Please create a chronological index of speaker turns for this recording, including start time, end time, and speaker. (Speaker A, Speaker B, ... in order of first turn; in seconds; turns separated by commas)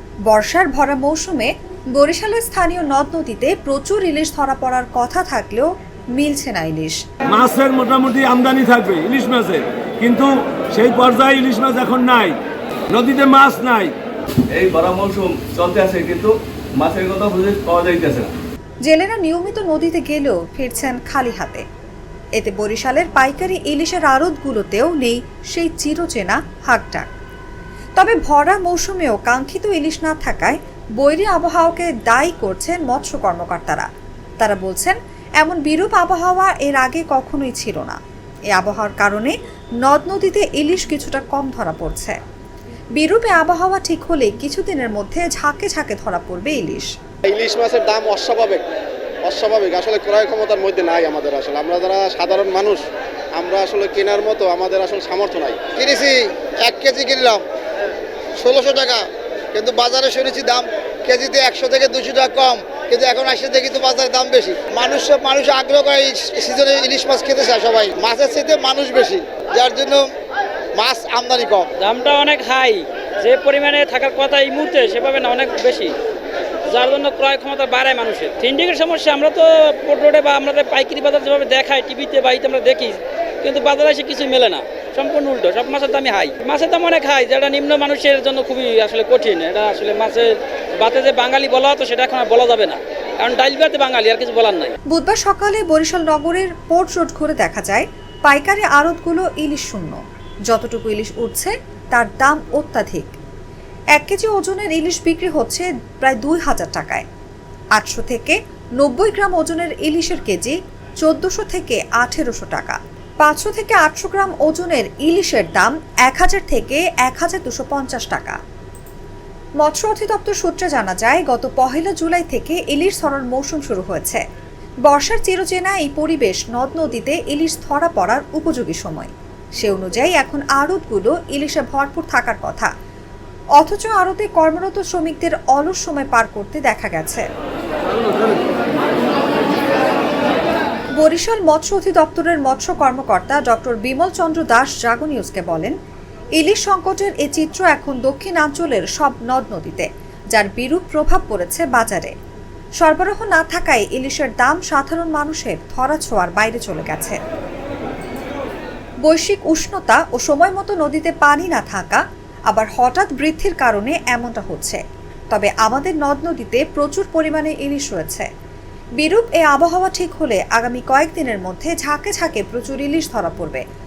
Speaker A: 0.3-7.0, Speaker B: 7.3-12.4, Speaker B: 12.9-13.9, Speaker C: 14.5-18.3, Speaker A: 18.9-21.6, Speaker A: 22.4-27.1, Speaker A: 28.0-33.9, Speaker A: 34.4-38.0, Speaker A: 38.5-42.2, Speaker A: 43.0-46.9, Speaker D: 47.3-48.6, Speaker D: 49.3-52.8, Speaker D: 53.4-55.7, Speaker E: 55.7-57.4, Speaker E: 58.4-70.1, Speaker E: 70.8-71.7, Speaker F: 71.8-76.0, Speaker F: 76.7-94.8, Speaker A: 94.9-103.1, Speaker A: 104.0-107.1, Speaker A: 107.8-118.4, Speaker A: 119.6-124.2, Speaker A: 124.9-132.7, Speaker A: 133.6-137.3, Speaker A: 141.0-145.8, Speaker A: 146.4-152.1, Speaker A: 152.8-157.2, Speaker A: 159.1-168.3, Speaker A: 169.0-173.6